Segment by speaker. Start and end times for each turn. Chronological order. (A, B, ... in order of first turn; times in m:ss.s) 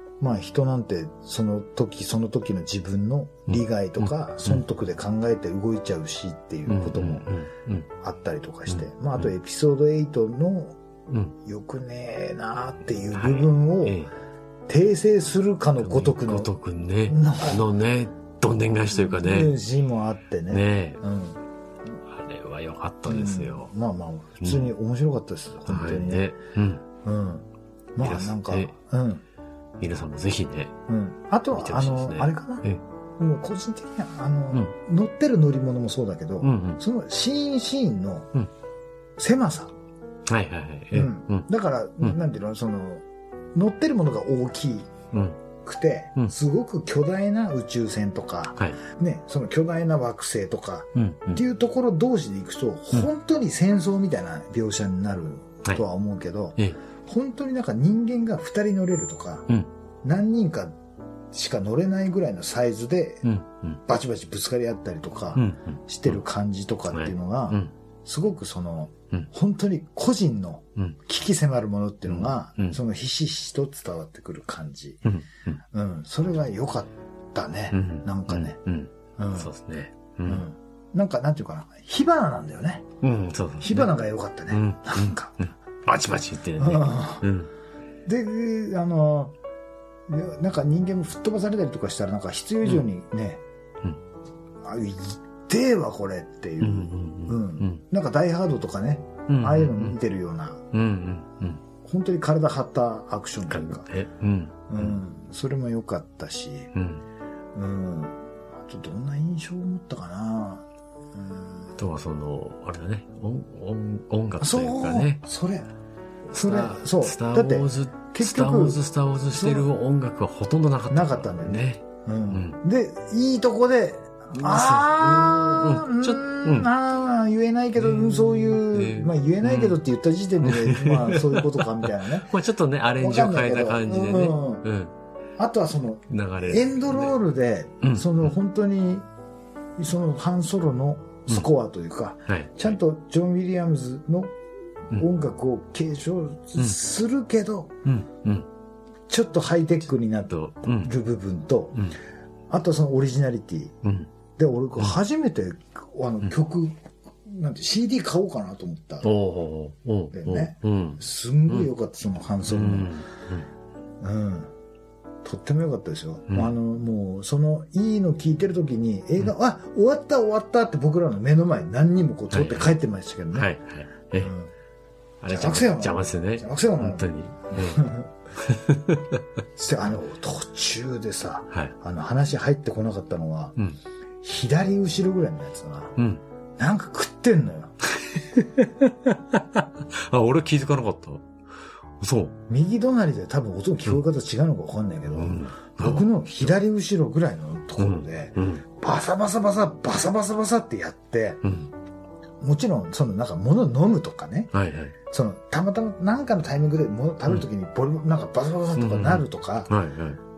0:00.2-0:07.3 A
0:03.5-0:04.6 B
0:06.7-0:07.9 B
0:08.0-0:10.8 A
0:08.7-0:09.3 B
0:11.1-0:11.4 B
0:11.4-0:14.0 A
0:13.1-0:14.1 B
0:14.7-0:16.5 A
0:15.8-0:19.6 B
0:17.1-0:17.6 A
0:19.0-0:21.4 A
0:20.5-0:21.0 B
0:22.1-0:23.7 B
0:23.1-0:26.3 A
0:24.4-0:24.7 B
0:25.7-0:26.8 B
0:27.0-0:29.2 A
0:28.0-0:28.7 B
0:29.8-0:30.7 B
0:30.9-0:32.6 A
0:31.5-0:32.8 B
0:33.2-0:38.3 A
0:36.4-0:36.8 B
0:39.2-0:39.7 A
0:40.3-0:41.5 B
0:40.9-0:44.9 A
0:45.1-0:45.4 B
0:45.6-0:59.5 A
0:51.0-0:51.4 B
1:00.0-1:00.8 A
1:01.3-1:03.3 A
1:03.2-1:03.8 B
1:03.9-1:15.0 A
1:05.4-1:06.2 B
1:06.9-1:07.7 B
1:12.1-1:12.8 B
1:15.0-1:15.6 B
1:15.7-1:18.6 A
1:17.7-1:20.5 B
1:19.2-1:19.5 A
1:20.2-1:22.9 A
1:23.0-1:27.5 B
1:23.6-1:25.4 A
1:26.6-1:27.3 A
1:28.0-1:29.4 A
1:30.1-1:33.4 A
1:34.6-1:40.6 A
1:36.6-1:37.8 B
1:39.3-1:40.0 B
1:40.7-1:41.6 B
1:41.8-1:43.9 A
1:43.5-1:45.0 B
1:44.7-1:46.7 A
1:46.7-1:47.0 B
1:47.6-1:51.7 A
1:51.8-1:55.2 B
1:54.4-1:55.7 A
1:56.3-2:02.6 B
1:56.3-1:59.7 A
2:00.9-2:12.3 A
2:04.3-2:06.7 B
2:07.8-2:09.8 B
2:10.4-2:14.9 B
2:13.0-2:14.6 A
2:15.4-2:19.1 A
2:16.1-2:17.2 B
2:17.8-2:18.3 B
2:19.8-2:24.4 A
2:22.3-2:22.8 B
2:24.9-2:27.8 A
2:27.9-2:28.5 B
2:29.1-2:31.8 A
2:30.3-2:30.9 B
2:32.5-2:33.8 A
2:33.8-2:34.1 B
2:34.4-2:39.1 A
2:39.0-2:41.7 B
2:40.1-2:43.0 A
2:42.5-2:43.5 B
2:44.0-2:44.5 A
2:45.2-2:53.5 A
2:46.3-2:46.5 B
2:52.3-2:52.8 B
2:53.3-2:54.3 B
2:54.2-2:54.5 A
2:55.2-2:59.2 B
2:55.3-2:58.1 A
2:59.6-3:03.6 A
3:04.2-3:06.0 A
3:06.0-3:06.2 B
3:06.6-3:07.8 A
3:08.1-3:11.3 B
3:12.0-3:12.4 B
3:12.5-3:21.4 A
3:15.1-3:16.5 B
3:17.8-3:18.6 B
3:21.4-3:21.7 B
3:22.4-3:24.5 A
3:24.5-3:25.0 B
3:25.1-3:29.7 A
3:28.8-3:30.2 B